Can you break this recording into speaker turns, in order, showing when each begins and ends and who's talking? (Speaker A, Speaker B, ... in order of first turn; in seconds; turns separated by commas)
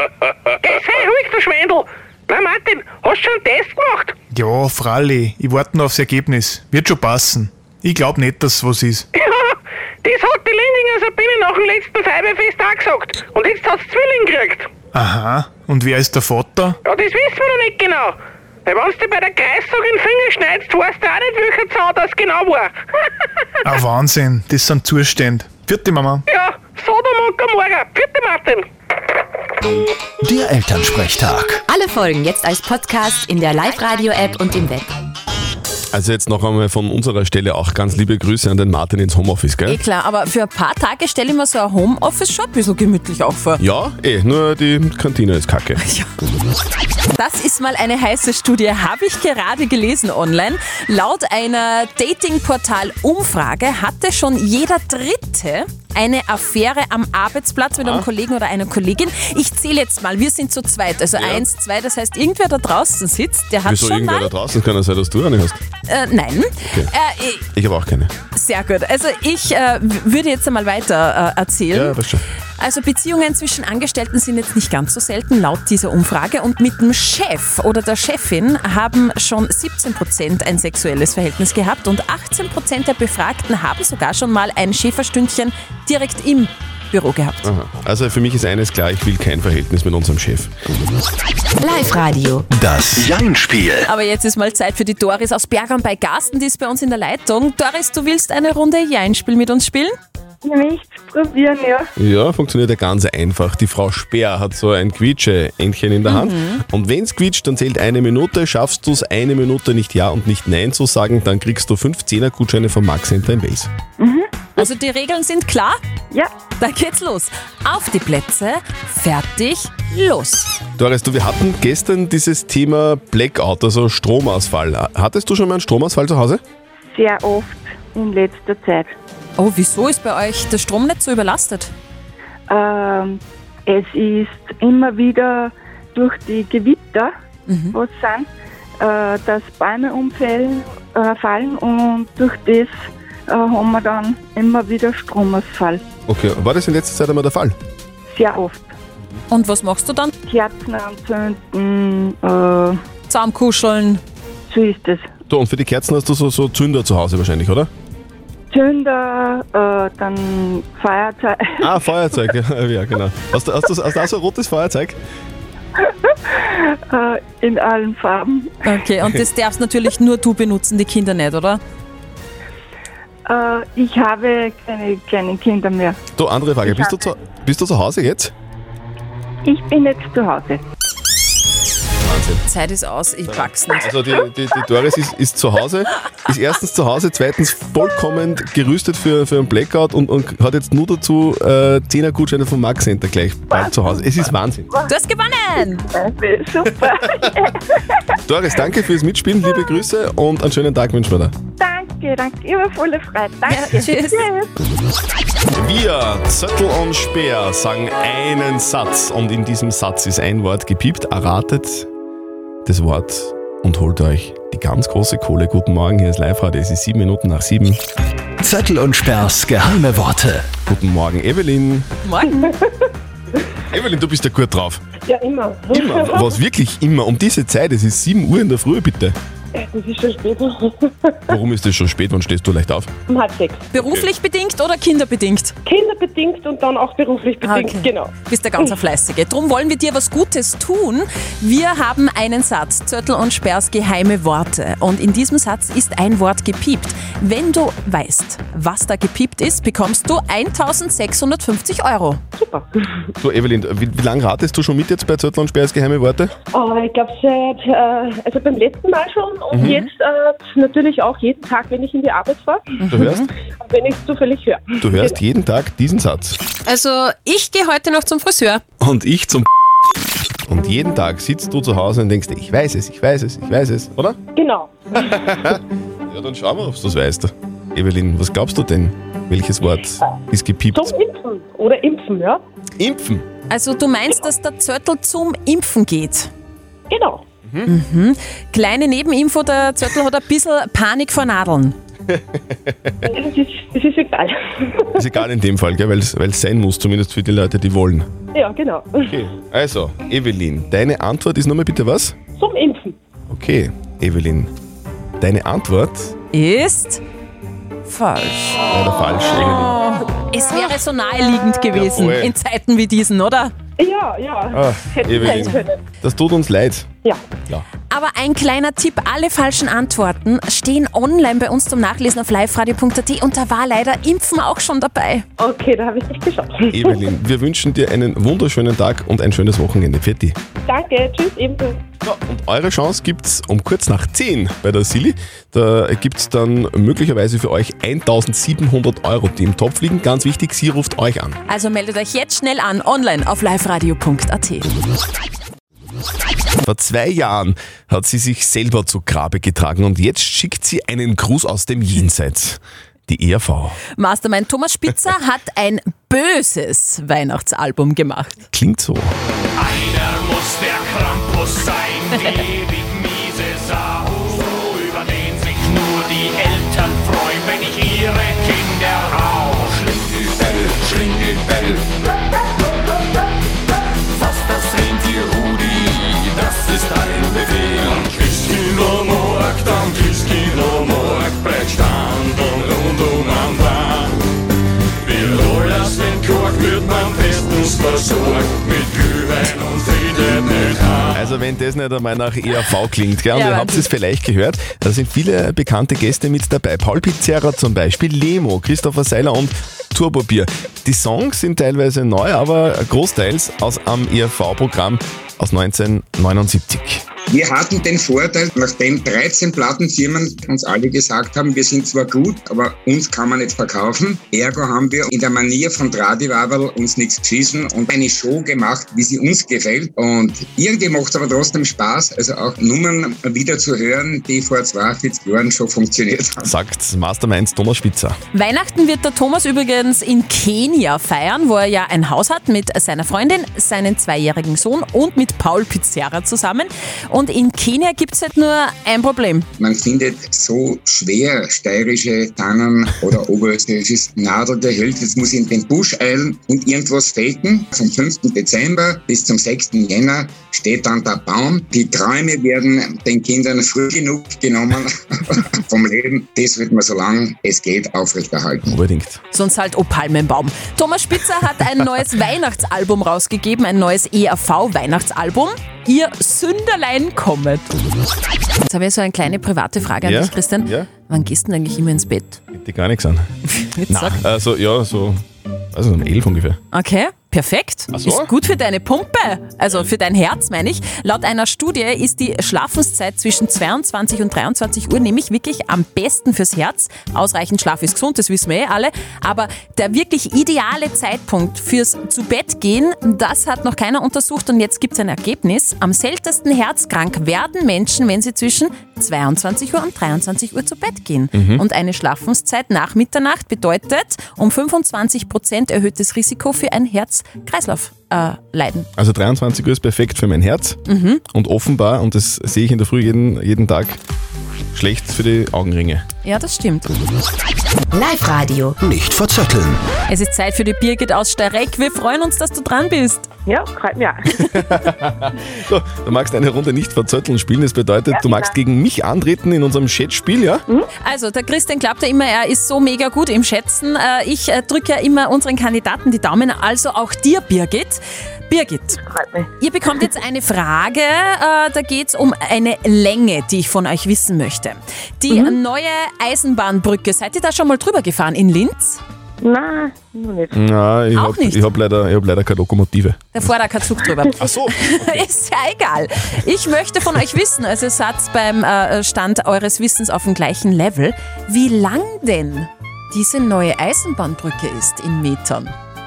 Speaker A: 0.6-4.1, Speaker B: 4.3-9.1, Speaker A: 9.2-14.7, Speaker B: 14.9-16.8, Speaker A: 16.9-22.7, Speaker B: 23.6-26.2, Speaker A: 26.3-28.7, Speaker C: 30.2-31.6, Speaker D: 31.7-34.9, Speaker E: 35.9-39.8, Speaker F: 39.7-43.6, Speaker E: 43.6-45.8, Speaker F: 45.8-46.1, Speaker F: 47.1-64.3, Speaker E: 57.8-58.1, Speaker E: 61.1-61.5, Speaker E: 63.6-65.6, Speaker F: 65.9-67.5, Speaker E: 67.5-68.1, Speaker F: 68.3-72.0, Speaker E: 71.7-72.2, Speaker F: 72.6-87.5, Speaker E: 87.4-90.5, Speaker D: 91.6-92.5, Speaker C: 92.5-93.9, Speaker F: 93.9-99.9, Speaker G: 100.4-101.9, Speaker E: 102.0-113.7, Speaker F: 106.1-106.6, Speaker G: 114.0-114.3, Speaker F: 114.6-115.8, Speaker F: 116.6-120.5, Speaker E: 120.8-126.4, Speaker G: 126.9-128.9, Speaker F: 129.4-131.7, Speaker G: 132.5-137.1, Speaker F: 137.5-137.8, Speaker G: 137.7-138.3, Speaker G: 138.8-142.7, Speaker G: 143.3-145.8, Speaker E: 146.1-147.6, Speaker G: 148.1-148.7, Speaker F: 149.3-150.1, Speaker G: 150.3-152.8, Speaker F: 153.1-154.0, Speaker G: 154.5-155.1, Speaker E: 155.3-157.7, Speaker G: 158.5-161.6, Speaker E: 161.6-165.0, Speaker G: 166.9-168.5, Speaker F: 168.6-171.6, Speaker G: 173.3-176.0, Speaker E: 176.2-178.3, Speaker G: 179.4-180.6, Speaker E: 182.0-182.4, Speaker F: 182.5-183.9, Speaker E: 183.3-194.7, Speaker F: 194.9-195.9, Speaker G: 195.9-197.6, Speaker E: 198.3-201.3, Speaker G: 201.6-204.5, Speaker F: 203.5-204.3, Speaker E: 205.5-211.9, Speaker E: 212.7-217.8, Speaker C: 218.4-220.5, Speaker E: 220.7-221.9, Speaker F: 222.0-222.5, Speaker E: 223.7-224.8, Speaker H: 225.1-225.9, Speaker E: 225.7-229.2, Speaker H: 229.7-230.4, Speaker E: 231.3-232.9, Speaker H: 233.1-233.6, Speaker F: 233.7-235.6, Speaker E: 233.8-234.1, Speaker H: 235.7-238.1, Speaker F: 237.4-252.2, Speaker E: 253.2-256.3, Speaker H: 256.5-262.6, Speaker E: 259.5-259.8, Speaker F: 259.6-259.9, Speaker F: 262.8-263.3, Speaker E: 262.9-263.2, Speaker H: 263.6-264.6, Speaker E: 264.8-266.4, Speaker F: 266.7-268.6, Speaker E: 268.8-269.5, Speaker E: 270.5-274.2, Speaker H: 274.4-274.7, Speaker E: 275.0-280.9, Speaker H: 280.8-282.4, Speaker E: 282.8-283.2, Speaker F: 283.5-286.3, Speaker H: 286.9-287.2, Speaker E: 287.5-287.7, Speaker F: 287.7-291.8, Speaker E: 292.1-292.9, Speaker H: 293.4-294.3, Speaker E: 295.0-298.1, Speaker H: 298.4-299.0, Speaker E: 299.1-302.1, Speaker H: 302.4-302.9, Speaker E: 303.3-304.5, Speaker E: 305.2-306.1, Speaker F: 306.3-307.0, Speaker F: 307.9-308.7, Speaker E: 308.7-309.8, Speaker F: 309.4-313.5, Speaker E: 311.7-312.4, Speaker H: 313.8-315.8, Speaker E: 314.5-316.9, Speaker F: 317.9-325.3, Speaker H: 325.5-326.5, Speaker E: 326.7-330.4, Speaker H: 330.7-331.7, Speaker E: 332.0-341.4, Speaker F: 341.5-344.7, Speaker E: 346.6-353.8, Speaker F: 354.0-358.5, Speaker E: 358.5-359.1, Speaker I: 374.7-375.9, Speaker I: 376.5-383.9, Speaker I: 385.2-390.9, Speaker E: 391.1-407.0, Speaker F: 393.3-393.9, Speaker J: 407.3-426.4, Speaker E: 426.4-428.2, Speaker F: 428.3-439.5, Speaker J: 439.6-458.8, Speaker E: 458.7-459.2, Speaker F: 459.3-467.7, Speaker F: 468.6-472.4, Speaker E: 470.0-470.9, Speaker E: 472.5-473.3, Speaker F: 473.5-474.2, Speaker E: 473.9-476.6, Speaker F: 476.7-508.9, Speaker E: 477.9-478.3, Speaker E: 501.3-501.6, Speaker E: 509.0-510.8, Speaker F: 510.9-511.2, Speaker E: 511.3-514.0, Speaker E: 514.7-516.0, Speaker F: 516.2-516.9, Speaker D: 517.9-518.7, Speaker C: 518.8-519.8, Speaker F: 520.1-523.3, Speaker H: 523.5-524.1, Speaker E: 524.5-530.6, Speaker F: 531.0-539.0, Speaker H: 539.1-539.4, Speaker F: 539.6-549.0, Speaker H: 549.5-550.2, Speaker E: 550.5-553.5, Speaker F: 551.1-551.6, Speaker F: 553.3-565.7, Speaker E: 554.4-555.3